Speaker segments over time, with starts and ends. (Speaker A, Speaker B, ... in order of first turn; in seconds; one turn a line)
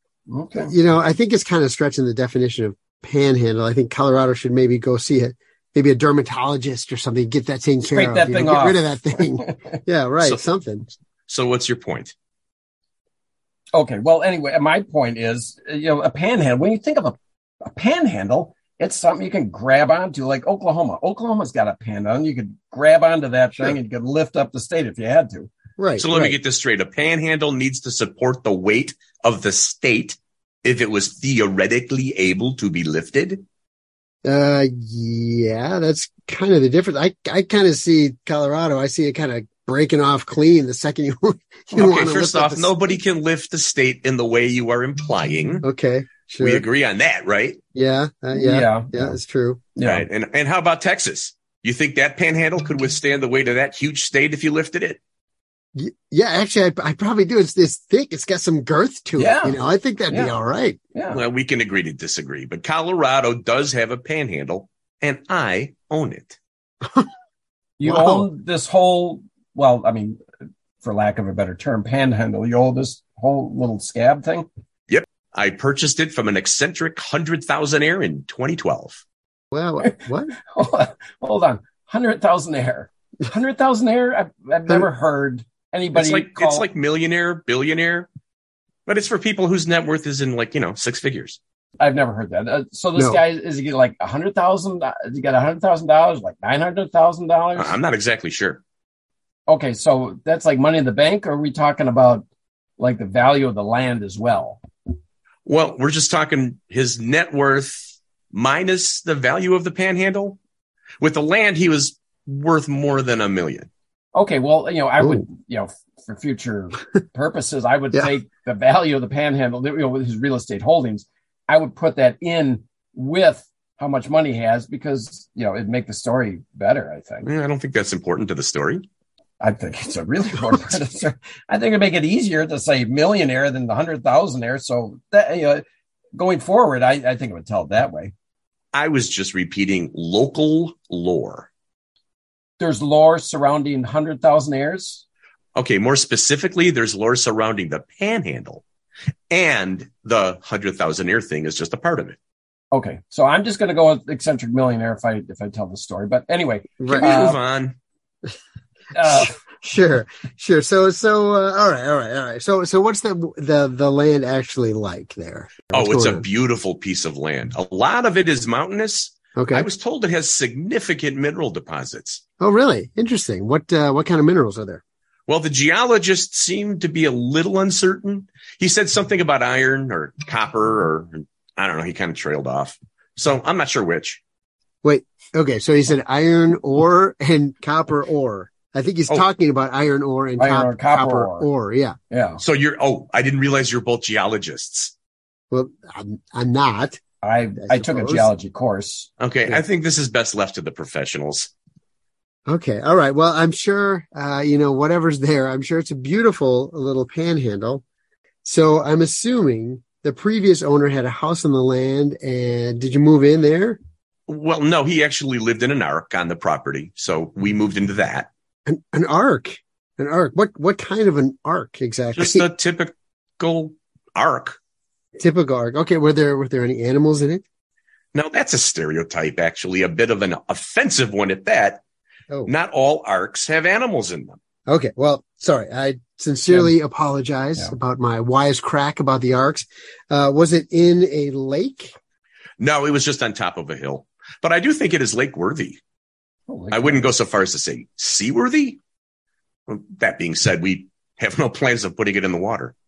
Speaker A: 0.3-0.7
Speaker B: 0.7-10.9
Speaker A: 7.8-9.8
Speaker C: 11.3-12.1
Speaker A: 13.7-25.5
Speaker B: 25.8-26.4
Speaker C: 26.0-33.4
Speaker B: 34.2-43.0
Speaker C: 41.7-45.6
Speaker B: 45.6-46.6
Speaker C: 46.4-47.6
Speaker B: 47.7-49.6
Speaker A: 48.3-49.2
Speaker A: 49.8-50.0
Speaker C: 49.8-55.0
Speaker B: 55.7-60.8
Speaker A: 59.2-59.6
Speaker A: 60.9-61.2
Speaker C: 61.1-66.3
Speaker A: 67.8-70.2
Speaker B: 67.8-68.3
Speaker A: 70.8-74.5
Speaker C: 74.9-79.0
Speaker B: 79.5-80.3
Speaker A: 79.8-86.7
Speaker C: 85.9-88.1
Speaker C: 88.9-91.4
Speaker A: 91.8-97.8
Speaker B: 93.0-93.2
Speaker C: 97.5-98.6
Speaker A: 99.5-102.2
Speaker A: 102.8-104.6
Speaker C: 105.5-110.4
Speaker C: 111.0-113.7
Speaker A: 114.1-127.2
Speaker C: 127.2-128.8
Speaker A: 129.4-135.6
Speaker A: 136.1-138.1
Speaker C: 138.7-141.5
Speaker A: 142.6-145.0
Speaker C: 145.6-148.6
Speaker C: 149.3-152.2
Speaker A: 152.7-157.4
Speaker B: 156.8-157.3
Speaker C: 156.9-157.8
Speaker A: 158.9-159.4
Speaker B: 159.0-166.2
Speaker C: 165.7-172.2
Speaker B: 169.3-169.7
Speaker B: 172.4-174.8
Speaker C: 175.3-184.2
Speaker B: 184.8-191.9
Speaker A: 190.4-191.5
Speaker A: 192.1-192.4
Speaker C: 192.4-194.9
Speaker B: 195.5-197.0
Speaker A: 197.2-199.1
Speaker B: 197.6-198.3
Speaker C: 199.2-201.5
Speaker B: 202.4-207.8
Speaker B: 208.4-213.8
Speaker C: 214.3-218.3
Speaker B: 218.7-222.5
Speaker C: 222.1-224.6
Speaker B: 225.2-227.4
Speaker C: 228.1-231.8
Speaker C: 232.4-234.4
Speaker B: 234.7-241.9
Speaker A: 236.5-236.7
Speaker C: 242.6-245.8
Speaker A: 246.5-247.1
Speaker C: 246.7-248.8
Speaker C: 249.7-252.7